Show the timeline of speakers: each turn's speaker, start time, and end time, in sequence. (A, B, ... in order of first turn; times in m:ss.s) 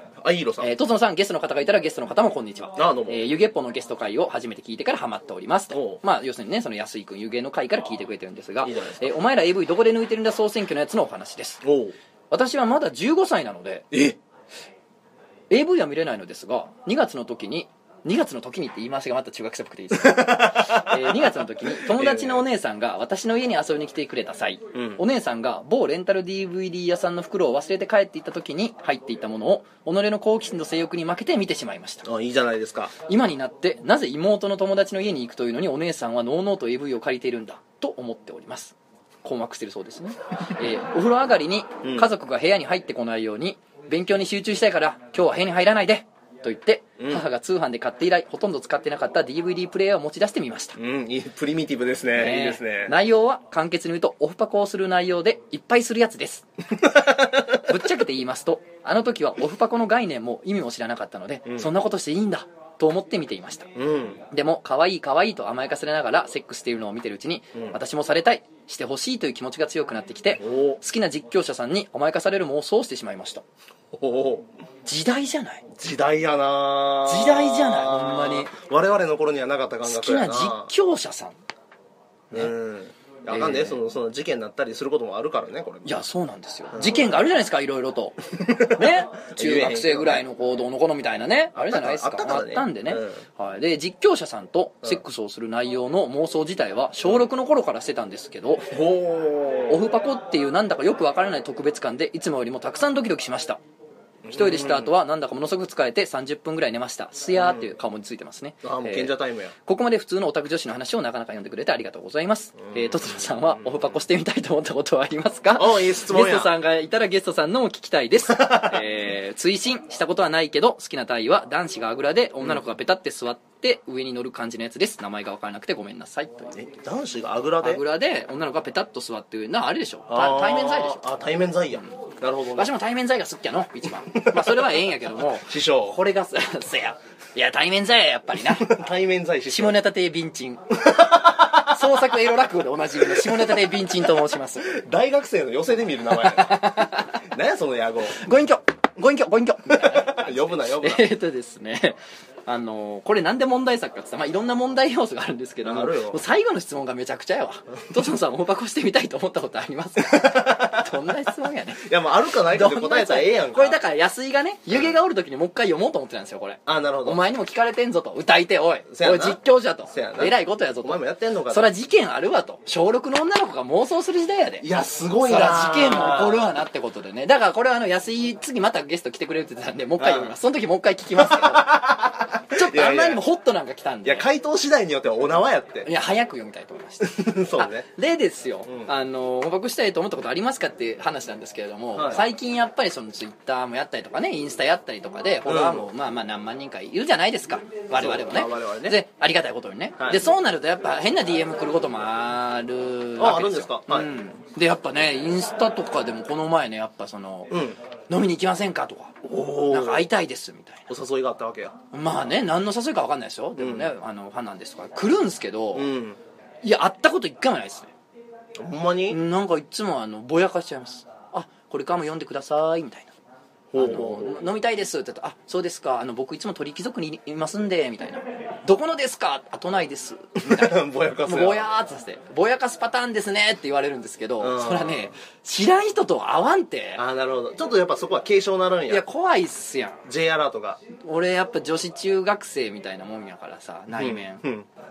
0:00.2-0:00.7 A
0:00.6-0:11.6 B
0:02.8-0:03.3 A
0:05.7-0:06.0 A
0:08.6-0:09.1 A
0:11.6-0:12.0 A
0:12.3-0:13.9 B
0:13.9-0:14.2 A
0:15.5-0:32.1 B
0:19.9-0:22.4 A
0:24.8-0:25.0 A
0:32.0-0:32.9 A
0:33.0-0:50.8 B
0:41.8-0:42.1 A
0:47.0-0:47.3 A
0:50.8-0:53.0 A
0:52.2-0:56.5 B
0:56.7-0:57.8 A
0:57.5-1:03.7 B
1:01.5-1:01.7 A
1:03.8-1:04.2 A
1:04.3-1:13.4 B
1:10.4-1:10.8 A
1:13.9-1:14.5 A
1:14.9-1:15.7 B
1:15.8-1:20.7 A
1:17.0-1:18.5 B
1:19.8-1:21.4 B
1:22.3-1:26.0 A
1:23.3-1:23.8 B
1:25.8-1:38.7 B
1:26.7-1:27.1 A
1:28.3-1:30.2 A
1:31.6-1:33.2 A
1:38.7-1:39.8 A
1:39.7-1:43.6 B
1:44.2-1:44.9 A
1:44.3-2:06.6 B
1:47.4-1:47.7 A
1:48.6-1:49.5 A
1:52.7-1:53.7 A
1:55.6-1:56.5 A
1:58.3-1:58.8 A
2:06.6-2:07.8 A
2:07.6-2:11.0 B
2:10.1-2:12.7 A
2:12.6-2:18.8 B
2:13.9-2:16.0 A
2:18.4-2:19.8 A
2:19.5-2:24.8 B
2:20.8-2:22.2 A
2:23.0-2:28.2 A
2:26.1-2:27.2 B
2:28.1-2:41.9 B
2:29.7-2:31.1 A
2:35.6-2:36.2 A
2:40.0-2:40.9 A
2:41.8-2:43.8 A
2:42.5-2:54.7 B
2:44.7-2:45.0 A
2:46.7-2:47.2 A
2:48.9-2:51.7 A
2:54.6-2:56.5 A
2:55.2-3:01.9 B
3:00.0-3:00.3 A
3:01.2-3:03.2 A
3:02.5-3:04.3 B
3:04.0-3:05.9 A
3:05.9-3:30.9 B
3:07.0-3:07.9 A
3:08.7-3:08.9 A
3:11.9-3:12.2 A
3:15.4-3:15.9 A
3:17.9-3:19.0 A
3:20.0-3:20.4 A
3:23.2-3:24.1 A
3:27.5-3:27.8 A
3:29.2-3:30.1 A
3:30.9-3:31.8 A
3:31.9-3:35.9 B
3:33.6-3:33.9 A
3:35.7-3:36.2 A
3:36.6-3:37.9 B
3:38.6-3:39.2 A
3:39.1-3:43.2 B
3:43.7-3:44.4 A
3:43.8-3:57.0 B
3:50.4-3:51.7 A
3:54.4-3:55.1 A
3:57.0-3:59.0 A
3:58.9-4:00.0 B
4:00.0-4:00.8 A
4:01.0-4:04.4 B
4:03.9-4:04.7 A